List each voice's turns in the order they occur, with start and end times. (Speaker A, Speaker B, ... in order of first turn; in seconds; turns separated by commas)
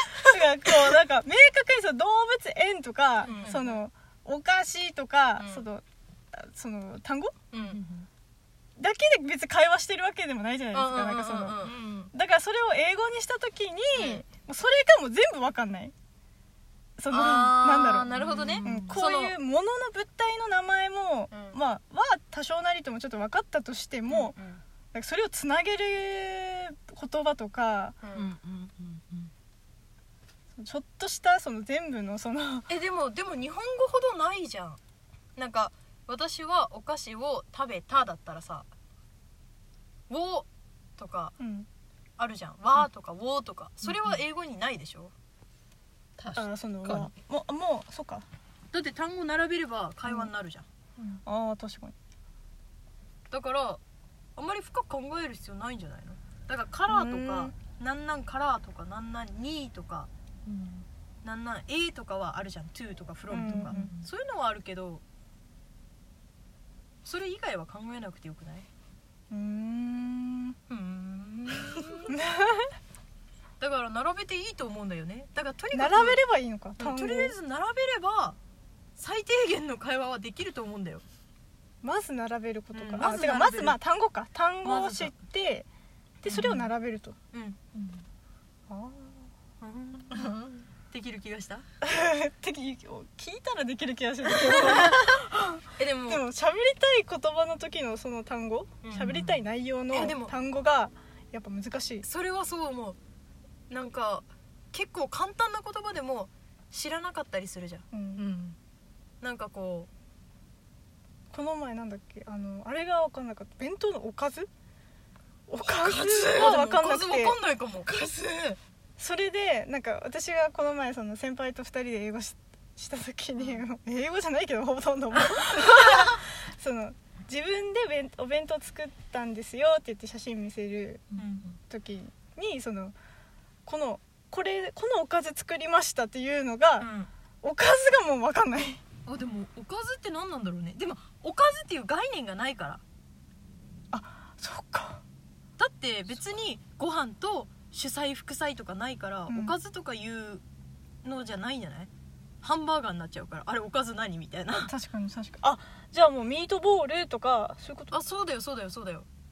Speaker A: 0.2-7.3, Speaker B: 3.2-3.6, Speaker C: 3.3-3.7, Speaker B: 5.4-5.7, Speaker B: 7.5-7.8, Speaker C: 7.7-8.1, Speaker A: 8.8-15.9, Speaker B: 10.7-11.8, Speaker C: 11.6-12.1, Speaker B: 13.9-14.2, Speaker A: 17.0-18.1, Speaker B: 17.1-19.4, Speaker C: 18.1-19.0, Speaker A: 18.6-24.4, Speaker B: 21.3-21.6, Speaker B: 24.1-24.6, Speaker A: 24.9-28.0, Speaker B: 28.0-28.9, Speaker A: 30.6-32.7, Speaker B: 32.7-34.8, Speaker B: 35.4-38.7, Speaker B: 40.1-41.4, Speaker A: 41.4-41.7, Speaker B: 42.2-45.1, Speaker C: 46.2-47.1, Speaker A: 46.4-48.2, Speaker B: 48.7-50.6, Speaker A: 50.0-50.3, Speaker A: 51.0-52.0, Speaker B: 53.3-53.8, Speaker B: 54.4-60.1, Speaker A: 56.9-57.5, Speaker C: 60.5-60.9, Speaker B: 61.2-65.0, Speaker A: 63.3-64.0, Speaker C: 63.3-64.0, Speaker B: 67.0-68.7, Speaker A: 69.3-70.6, Speaker B: 70.7-72.2, Speaker A: 72.1-72.7, Speaker B: 73.6-76.2, Speaker A: 75.7-77.4, Speaker B: 76.8-78.4, Speaker B: 79.0-81.0, Speaker A: 81.8-85.7, Speaker B: 82.7-83.8, Speaker B: 84.6-85.1, Speaker B: 86.2-86.7, Speaker A: 86.2-87.2, Speaker B: 87.3-87.6, Speaker C: 87.7-88.0, Speaker A: 88.7-89.3, Speaker B: 89.6-90.3, Speaker C: 90.1-90.7, Speaker B: 90.9-91.7, Speaker A: 91.8-102.1, Speaker B: 94.5-95.0, Speaker B: 95.8-96.2, Speaker B: 98.8-100.3, Speaker B: 102.0-103.0, Speaker B: 103.7-107.8, Speaker A: 107.9-108.3, Speaker C: 108.2-108.5, Speaker B: 109.2-109.9, Speaker A: 111.3-114.5, Speaker A: 115.5-117.4, Speaker C: 115.6-116.7, Speaker B: 116.3-117.9, Speaker C: 117.8-118.6, Speaker A: 119.0-131.1, Speaker B: 131.1-131.6, Speaker A: 131.7-132.9, Speaker A: 133.7-136.9, Speaker B: 136.8-137.1, Speaker A: 137.4-138.8, Speaker B: 139.1-142.8, Speaker A: 143.9-145.0, Speaker B: 145.6-150.4, Speaker A: 149.3-149.5, Speaker B: 151.0-151.9, Speaker B: 152.4-154.7, Speaker A: 154.5-158.0, Speaker B: 157.9-159.1